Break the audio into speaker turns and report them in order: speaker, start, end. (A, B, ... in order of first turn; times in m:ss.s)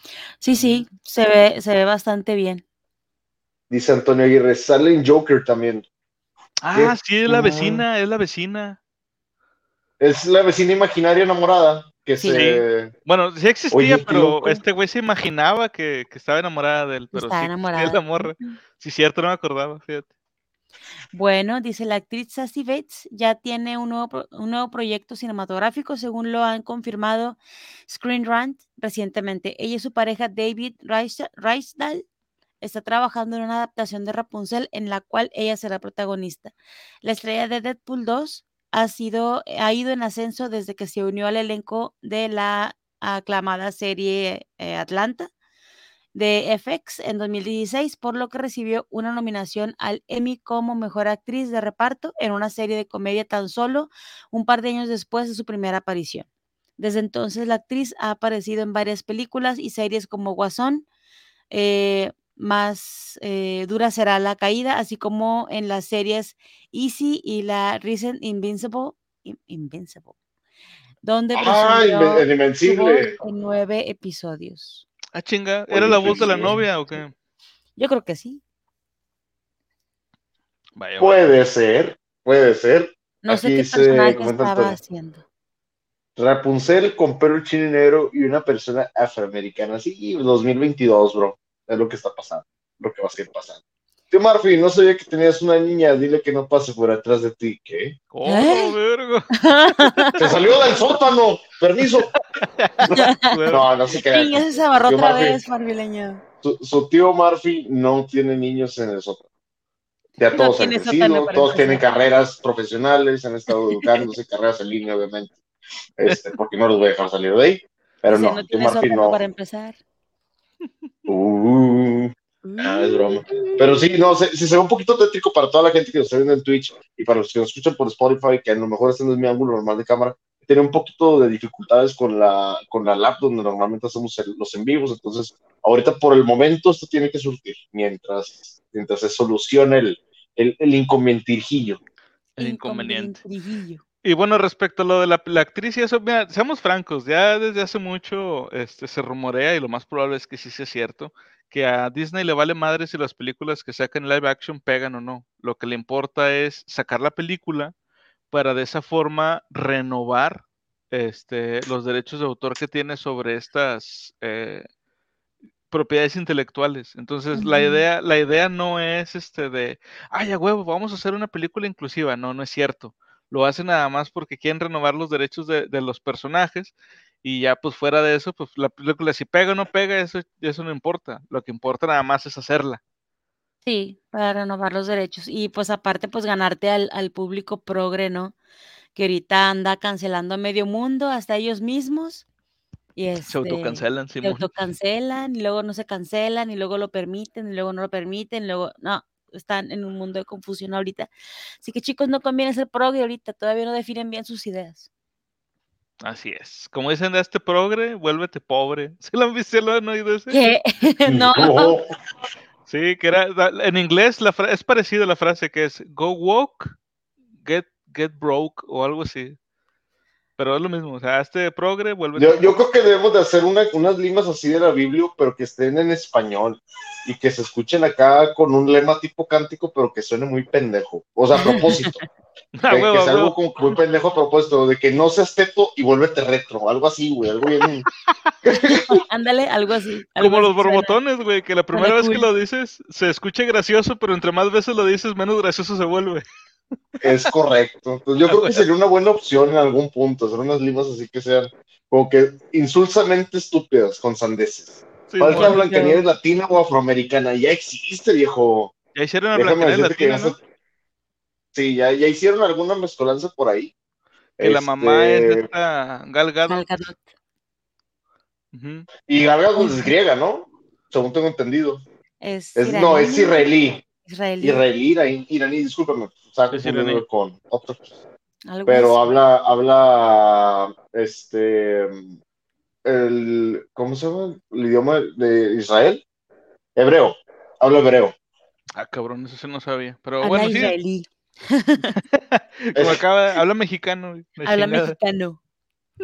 0:00.4-0:02.6 A
0:00.6-0:00.8 B
0:03.7-0:05.8 C
0:06.6-0:08.8 B
0:06.7-0:07.8 C
0:10.0-0:12.9 C
0:12.2-0:12.4 A
0:12.3-0:20.1 B
0:13.7-0:14.6 C
0:17.1-0:18.6 A
0:21.1-0:32.0 A
0:32.6-0:45.3 A
0:46.1-0:56.3 A
0:56.8-1:00.8 A
1:01.5-1:10.1 A
1:11.0-1:14.8 A
1:11.3-1:13.1 C
1:15.1-1:17.1 B
1:15.7-1:16.6 C
1:16.0-1:16.5 A
1:17.8-1:18.4 A
1:20.8-1:21.3 B
1:21.0-1:24.8 C
1:23.2-1:25.2 A
1:26.2-1:33.6 C
1:34.1-1:38.0 C
1:38.1-1:39.2 B
1:38.2-1:38.8 A
1:39.4-1:40.1 A
1:39.8-1:40.6 B
1:40.2-1:42.1 C
1:42.4-1:43.7 B
1:42.9-1:43.4 A
1:43.5-1:45.4 C
1:44.0-1:46.2 A
1:46.4-1:49.2 C
1:50.2-1:55.4 C
1:50.3-1:51.8 A
1:56.0-1:59.2 C
1:56.0-1:56.3 B
1:58.0-1:59.8 A
2:01.1-2:21.8 C
2:02.4-2:03.8 A
2:22.4-2:23.2 B
2:22.4-2:23.8 A
2:24.0-2:37.7 B
2:38.3-2:44.6 B
2:45.7-3:02.8 B
2:47.3-2:47.8 A
3:03.6-3:08.3 A
3:08.9-3:12.2 A
3:13.0-3:21.1 A
3:13.3-3:14.5 B
3:21.6-3:24.8 A
3:26.0-3:30.5 B
3:30.3-3:31.7 A
3:31.0-3:31.8 C
3:32.7-3:36.8 B
3:37.4-3:39.4 B
3:40.4-3:42.6 B
3:42.2-3:52.0 C
3:51.4-3:51.9 A
3:52.6-3:53.4 B
3:52.7-3:57.8 C
3:58.4-3:58.9 C
3:58.5-4:01.0 A
4:00.2-4:06.2 B
4:01.7-4:02.3 A
4:07.0-4:18.7 C
4:08.2-4:08.6 B
4:15.1-4:15.6 B
4:15.2-4:16.0 A
4:18.9-4:20.4 B
4:19.3-4:20.4 C
4:21.5-4:23.7 C
4:24.4-4:25.4 C
4:24.4-4:26.6 B
4:26.5-4:27.0 A
4:28.5-4:28.9 B
4:29.1-4:31.8 C
4:29.6-4:29.9 A
4:32.2-4:33.5 A
4:32.6-4:33.8 C
4:34.0-4:34.6 A
4:34.4-4:37.8 C
4:36.5-4:37.0 B
4:38.5-4:39.2 A
4:38.7-4:42.1 C
4:42.8-4:46.0 C
4:46.8-4:48.1 C
4:48.7-4:50.8 B
4:50.2-4:51.9 A
4:52.1-4:55.0 B
4:52.7-4:53.0 C
4:54.4-4:55.4 A